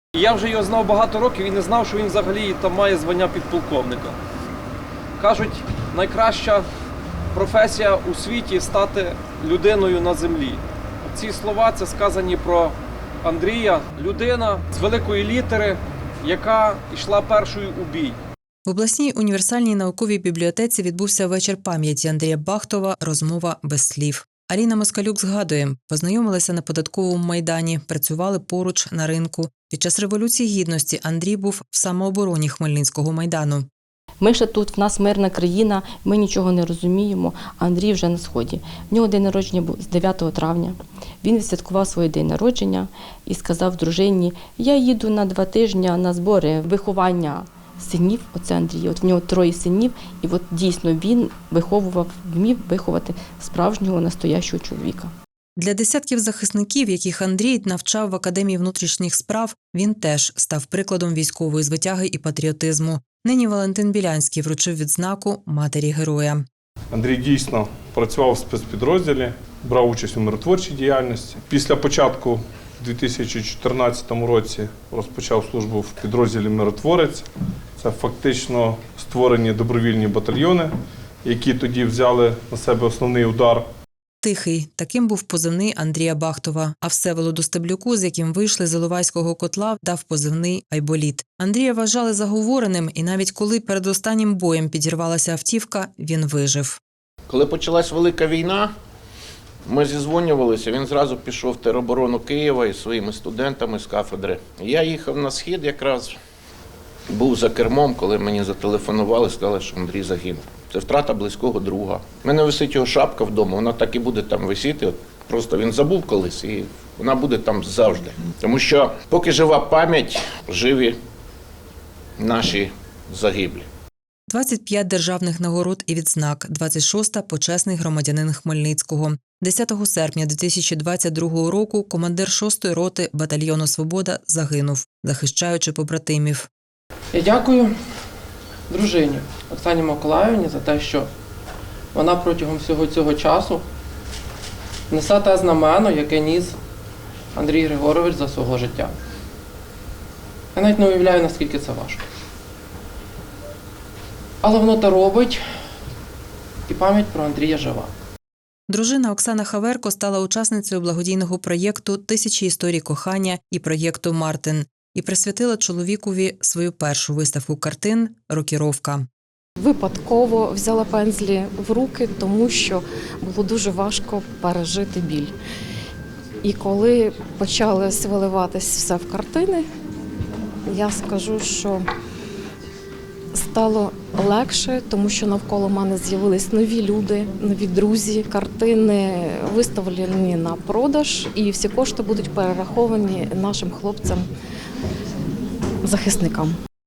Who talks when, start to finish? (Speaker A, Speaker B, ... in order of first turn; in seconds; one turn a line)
Speaker A: 0.2-4.2
Speaker A: 5.2-6.7
Speaker A: 7.3-18.2
Speaker B: 18.7-33.7
Speaker C: 34.2-55.1
Speaker B: 55.6-66.5
Speaker D: 66.9-77.3
Speaker D: 77.8-80.7
Speaker D: 81.2-83.7
Speaker B: 84.2-96.8
Speaker E: 97.3-98.7
Speaker E: 99.7-106.2
Speaker E: 107.1-121.0
Speaker E: 122.2-123.7
Speaker B: 124.3-136.5
Speaker F: 137.1-137.7
Speaker F: 138.7-141.1
Speaker F: 141.9-143.6
Speaker F: 144.9-146.6
Speaker F: 147.3-148.9
Speaker F: 150.6-152.0
Speaker F: 154.4-155.4
Speaker F: 156.7-157.9
Speaker B: 158.7-169.1
Speaker G: 169.6-175.3
Speaker G: 176.4-179.7
Speaker G: 180.7-181.8
Speaker G: 183.3-194.3
Speaker G: 195.8-196.6